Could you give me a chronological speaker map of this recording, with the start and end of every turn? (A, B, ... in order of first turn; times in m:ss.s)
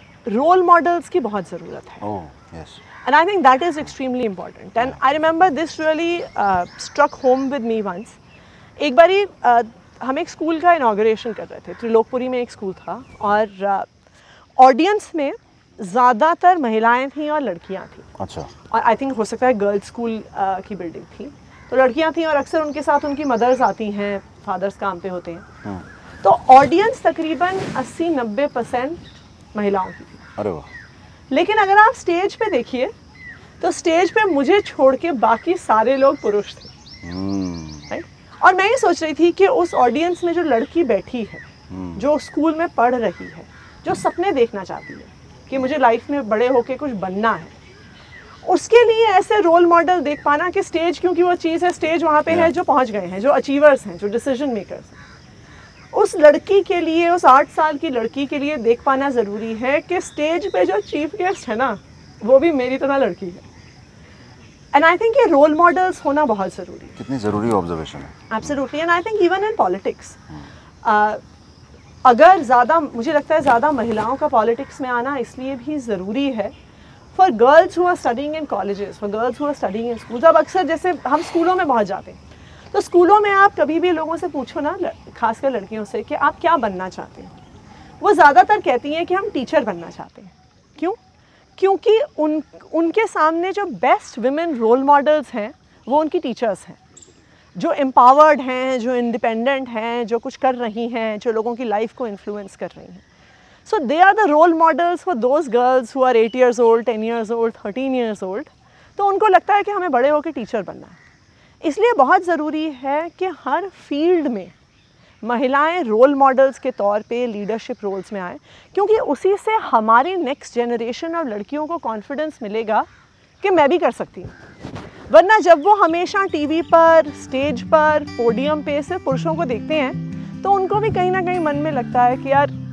0:00.2-0:02.0 A
0:02.0-0:02.8 B
0:03.0-0:08.2 A
0:08.8-0:13.9 A
0:14.6-0:18.1 A
0:18.2-0:18.5 B
0:18.7-0:25.4 A
0:26.2-0:29.0 A
0:29.5-0:30.2 A
0:30.4-0:30.7 B
0:31.3-0:32.9 A
0:33.6-0:36.7 A
0:37.0-0:37.9 B
0:37.9-0:47.6 A
0:41.7-0:42.0 B
0:48.4-0:55.0 A
0:55.9-1:03.4 A
1:04.7-1:07.0 A
1:07.0-1:08.1 B
1:08.3-1:10.2 A
1:10.8-1:11.2 A
1:12.0-1:16.5 A
1:17.1-1:22.2 A
1:22.7-1:27.3 A
1:28.0-1:31.0 A
1:31.6-1:36.8 A
1:37.5-1:43.0 A
1:43.6-1:51.0 A
1:51.6-1:54.5 A
1:55.2-2:02.9 A
2:03.4-2:04.3 A
2:05.1-2:12.5 A